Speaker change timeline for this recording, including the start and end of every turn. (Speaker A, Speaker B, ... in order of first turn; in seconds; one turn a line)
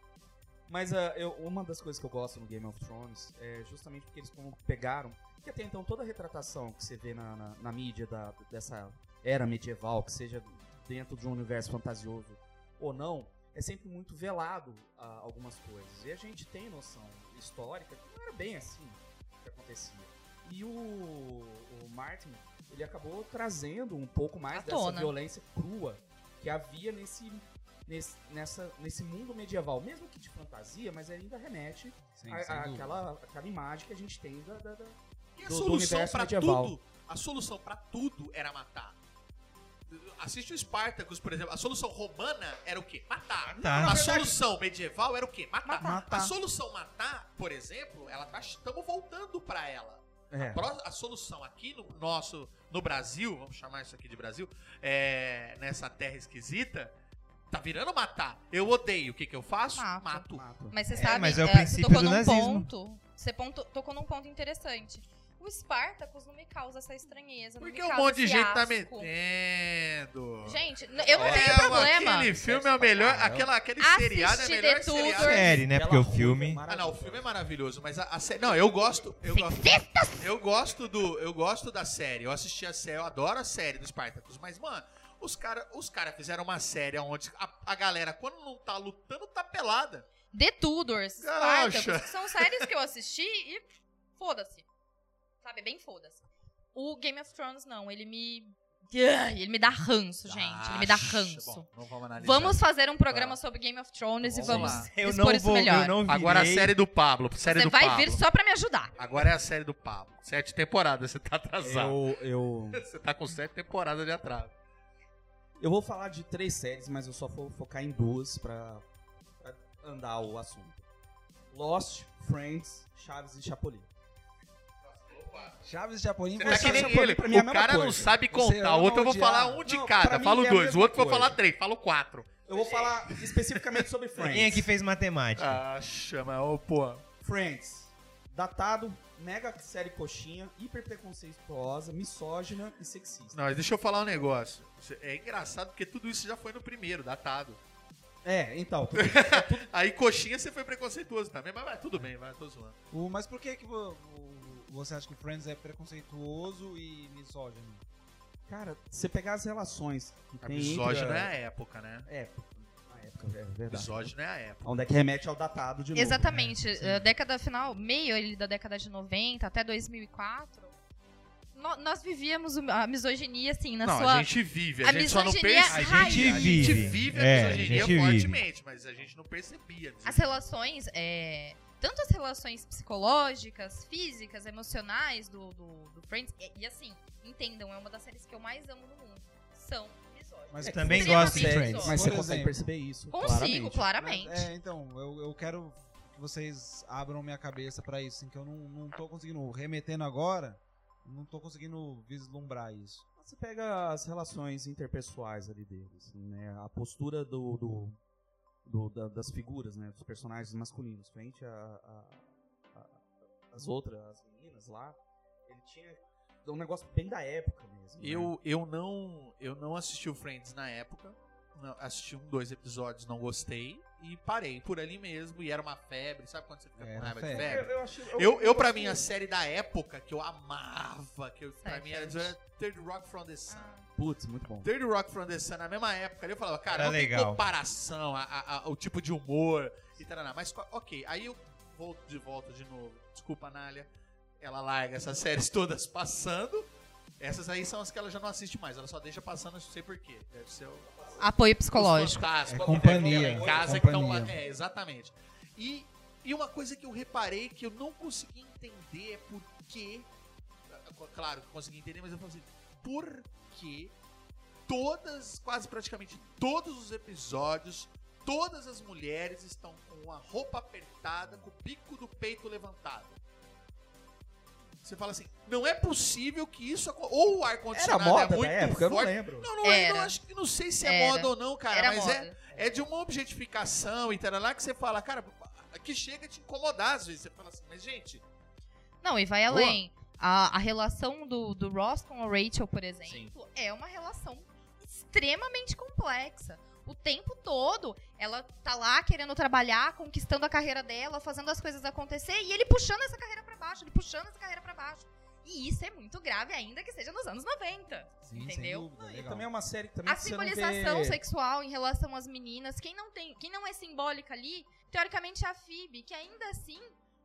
Speaker A: 0.7-36.8
Speaker B: 24.5-25.1
Speaker C: 32.1-33.0
Speaker D: 35.4-39.0
Speaker D: 39.9-56.9
Speaker E: 43.5-44.0
Speaker A: 43.5-44.4
Speaker B: 45.6-46.1
Speaker C: 45.8-46.2
Speaker A: 50.3-50.6
Speaker D: 57.5-60.4
Speaker B: 59.7-69.1
Speaker A: 60.4-60.8
Speaker E: 60.9-62.7
Speaker D: 67.6-75.6
Speaker B: 70.4-72.3
Speaker A: 71.0-73.5
Speaker B: 73.8-75.6
Speaker E: 75.2-76.6
Speaker A: 75.6-77.2
Speaker D: 76.7-90.1
Speaker B: 79.3-80.3
Speaker B: 90.3-93.6
Speaker D: 91.2-92.7
Speaker B: 94.2-94.7
Speaker B: 95.4-101.7
Speaker D: 100.3-103.4
Speaker B: 102.2-106.0
Speaker D: 104.2-104.9
Speaker E: 104.4-106.7
Speaker D: 106.0-108.2
Speaker B: 107.4-109.0
Speaker D: 109.0-112.0
Speaker A: 111.6-112.8
Speaker D: 112.7-114.5
Speaker A: 115.6-118.8
Speaker A: 119.4-120.8
Speaker A: 121.5-123.9
Speaker D: 124.8-125.6
Speaker C: 125.6-126.9
Speaker D: 126.4-133.8
Speaker A: 126.4-128.2
Speaker C: 128.3-129.6
Speaker A: 129.6-131.4
Speaker A: 132.5-134.7
Speaker E: 134.2-135.6
Speaker D: 135.4-137.0
Speaker A: 137.2-143.4
Speaker D: 143.3-147.6
Speaker A: 148.2-149.7
Speaker D: 148.9-152.8
Speaker C: 152.9-157.8
Speaker A: 158.5-161.3
Speaker D: 160.4-162.1
Speaker A: 162.1-164.1
Speaker D: 163.7-164.7
Speaker A: 164.6-166.4
Speaker B: 165.9-170.8
Speaker C: 166.3-167.0
Speaker B: 171.5-174.3
Speaker D: 173.8-180.3
Speaker B: 174.8-177.1
Speaker E: 175.7-178.4
Speaker B: 180.0-192.1
Speaker C: 190.5-192.7
Speaker E: 190.6-192.0
Speaker A: 190.7-193.8
Speaker B: 193.1-194.5
Speaker C: 194.0-203.0
Speaker A: 203.2-208.0
Speaker A: 208.6-218.3
Speaker D: 218.0-233.7
Speaker C: 226.8-227.7
Speaker A: 227.3-229.0
Speaker B: 231.6-232.3
Speaker B: 233.5-233.9
Speaker A: 233.9-234.7
Speaker D: 234.6-243.9
Speaker E: 236.7-237.4
Speaker D: 244.4-246.6
Speaker D: 247.2-250.9
Speaker A: 250.9-251.2
Speaker B: 251.2-252.3
Speaker D: 251.7-260.1
Speaker C: 252.4-254.3
Speaker A: 252.5-254.1
Speaker D: 260.7-263.9
Speaker D: 264.7-273.2
Speaker D: 274.8-288.2
Speaker A: 277.7-279.5
Speaker B: 279.6-280.2
Speaker B: 280.8-282.6
Speaker B: 289.0-308.9
Speaker A: 289.5-289.8
Speaker A: 293.1-293.3
Speaker C: 308.3-309.5
Speaker A: 309.0-311.2
Speaker B: 310.1-316.9